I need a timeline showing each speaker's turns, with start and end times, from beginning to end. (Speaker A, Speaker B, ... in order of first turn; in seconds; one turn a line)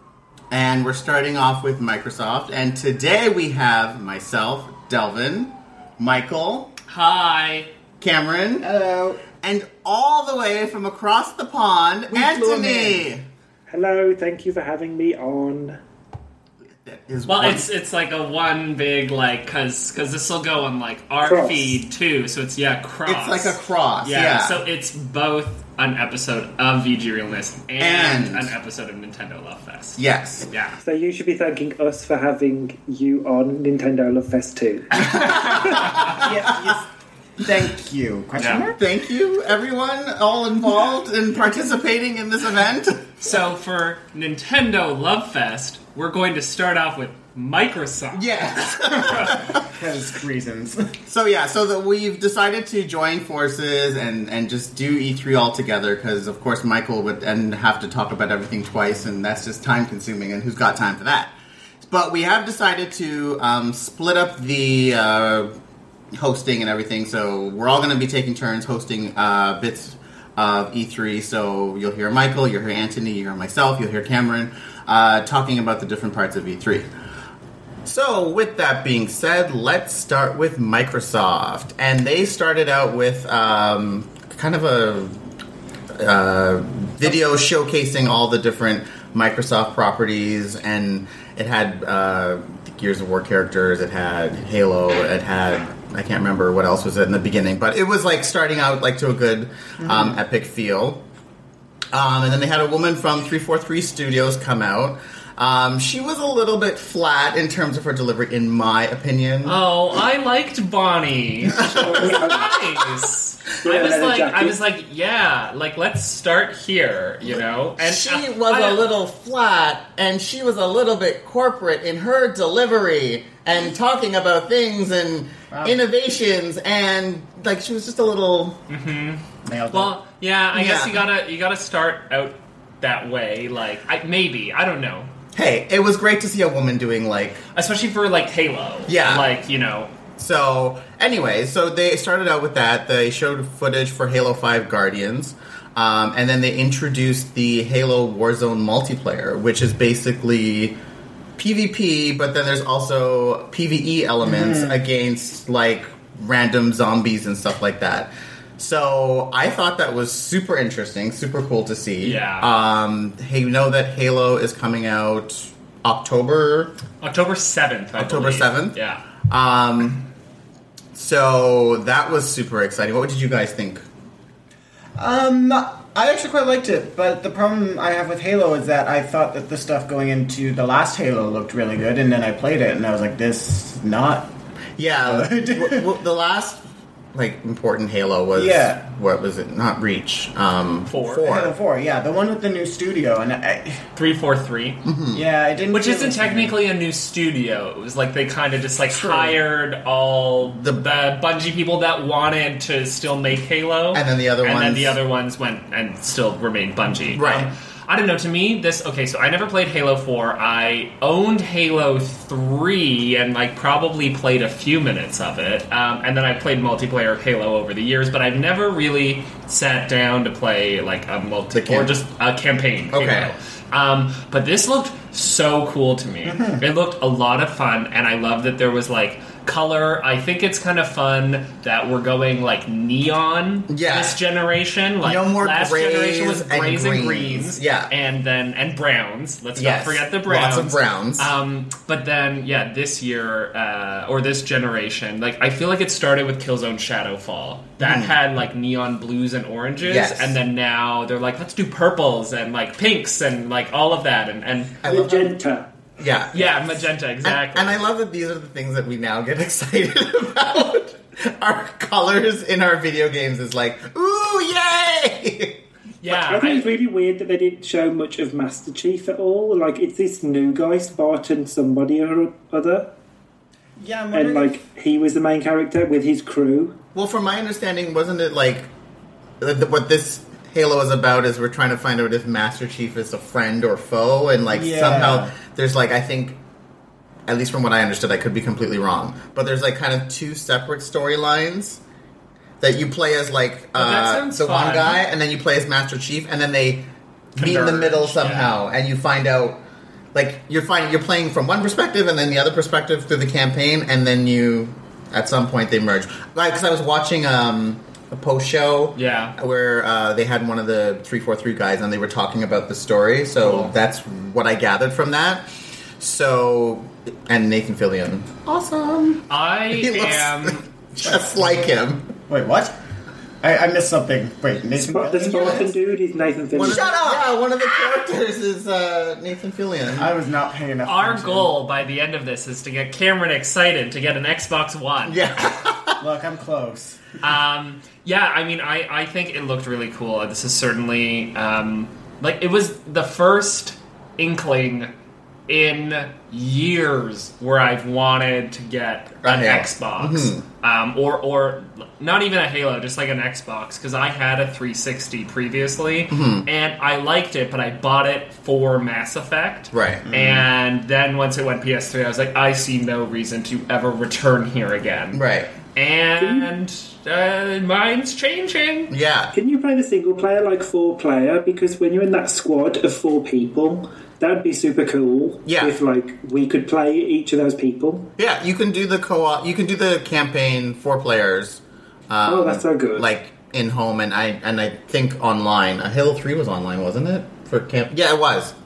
Speaker A: 0.5-6.7
Speaker B: 6.9-7.7
Speaker A: 8.0-8.7
Speaker C: 8.6-9.2
Speaker A: 9.4-13.2
Speaker C: 12.1-13.1
Speaker D: 13.7-15.8
Speaker A: 16.8-17.7
Speaker B: 17.2-30.8
Speaker D: 21.2-21.8
Speaker A: 23.1-24.6
Speaker A: 27.8-28.5
Speaker A: 30.0-30.5
Speaker D: 30.8-36.1
Speaker A: 35.0-36.6
Speaker C: 36.0-36.9
Speaker C: 37.4-38.8
Speaker B: 38.4-38.7
Speaker A: 38.8-43.1
Speaker B: 43.2-48.3
Speaker A: 48.1-49.6
Speaker B: 49.0-49.2
Speaker C: 49.2-50.9
Speaker A: 51.1-65.5
Speaker A: 66.2-76.9
Speaker A: 77.8-85.2
Speaker A: 86.0-101.0
Speaker C: 99.8-100.1
Speaker A: 101.9-109.6
Speaker B: 109.4-118.8
Speaker D: 111.5-112.6
Speaker A: 111.5-112.5
Speaker D: 113.6-114.6
Speaker A: 117.3-128.6
Speaker C: 125.5-125.8
Speaker B: 128.7-135.1
Speaker C: 129.4-130.0
Speaker A: 130.5-131.1
Speaker A: 135.3-137.4
Speaker B: 137.5-139.9
Speaker A: 138.9-139.3
Speaker A: 140.2-150.8
Speaker A: 151.4-166.7
Speaker C: 154.2-154.8
Speaker B: 162.0-162.5
Speaker B: 167.0-169.0
Speaker A: 167.9-170.0
Speaker A: 170.9-173.8
Speaker C: 175.0-184.3
Speaker A: 184.8-186.6
Speaker C: 185.0-185.9
Speaker A: 187.1-191.5
Speaker C: 188.3-188.8
Speaker B: 190.9-191.2
Speaker C: 191.2-193.8
Speaker B: 193.9-194.8
Speaker A: 194.8-195.2
Speaker C: 195.1-196.6
Speaker B: 195.7-254.8
Speaker C: 198.9-199.3
Speaker A: 200.6-200.8
Speaker A: 203.9-205.0
Speaker A: 207.1-207.5
Speaker A: 221.5-221.9
Speaker A: 222.9-223.3
Speaker C: 226.2-226.6
Speaker A: 233.7-234.2
Speaker A: 235.0-237.9
Speaker A: 239.6-241.3
Speaker A: 247.8-248.1
Speaker A: 249.8-250.3
Speaker A: 254.8-255.3
Speaker D: 254.8-255.7
Speaker A: 256.0-265.6
Speaker B: 256.3-257.9
Speaker B: 266.0-266.7
Speaker D: 266.1-272.9
Speaker C: 273.8-274.6
Speaker D: 274.1-276.8
Speaker A: 276.9-278.7
Speaker A: 279.4-286.4
Speaker C: 284.5-285.3
Speaker A: 287.3-291.8
Speaker A: 292.6-299.6
Speaker B: 293.7-295.0
Speaker C: 297.4-298.2
Speaker B: 298.1-298.6
Speaker A: 300.1-315.4
Speaker B: 308.9-309.3
Speaker B: 313.3-313.7
Speaker A: 316.0-322.1
Speaker B: 319.3-320.7
Speaker C: 321.0-321.3
Speaker C: 322.3-322.8
Speaker C: 323.4-325.7
Speaker D: 324.8-327.0
Speaker A: 326.5-330.1
Speaker C: 326.6-327.3
Speaker C: 329.9-331.5
Speaker B: 330.8-335.4
Speaker A: 335.0-336.0
Speaker C: 336.0-337.0
Speaker B: 337.2-344.9
Speaker B: 345.5-365.2
Speaker A: 349.2-350.4
Speaker A: 356.1-356.5
Speaker A: 359.7-360.4
Speaker A: 365.1-365.5
Speaker B: 365.7-368.9
Speaker D: 366.2-366.5
Speaker A: 368.9-369.3
Speaker D: 369.3-378.1
Speaker A: 375.4-375.8
Speaker A: 378.2-388.5
Speaker D: 382.2-383.1